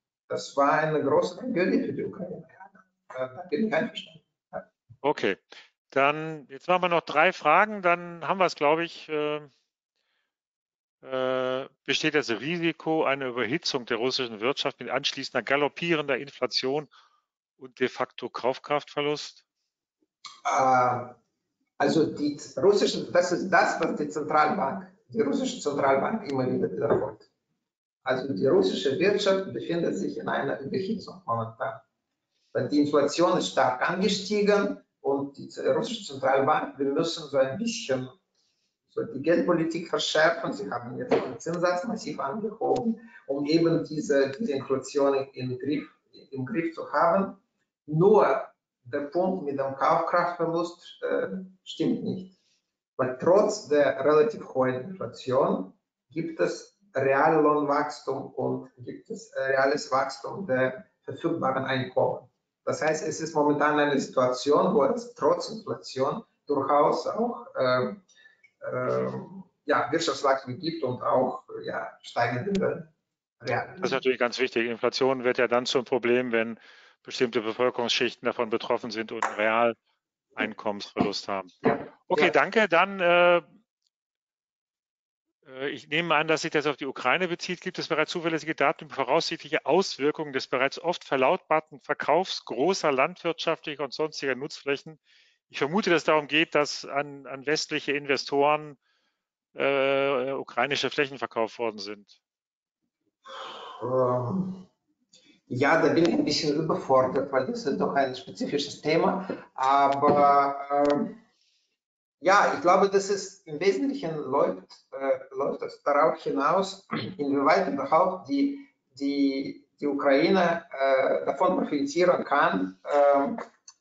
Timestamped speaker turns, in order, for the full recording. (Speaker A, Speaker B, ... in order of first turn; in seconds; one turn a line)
Speaker A: 0.3-4.7
Speaker B: 5.0-9.5
Speaker B: 11.0-16.9
Speaker B: 17.6-19.4
Speaker A: 20.4-21.2
Speaker A: 21.8-27.3
Speaker A: 28.1-31.8
Speaker A: 32.5-38.1
Speaker A: 38.9-52.4
Speaker A: 53.0-68.0
Speaker A: 68.6-74.0
Speaker B: 73.8-79.8
Speaker B: 80.4-81.5
Speaker A: 81.6-82.4
Speaker B: 82.1-83.5
Speaker B: 85.5-98.8
Speaker B: 99.5-102.2
Speaker A: 103.4-104.7
Speaker A: 105.5-111.2
Speaker A: 112.2-123.4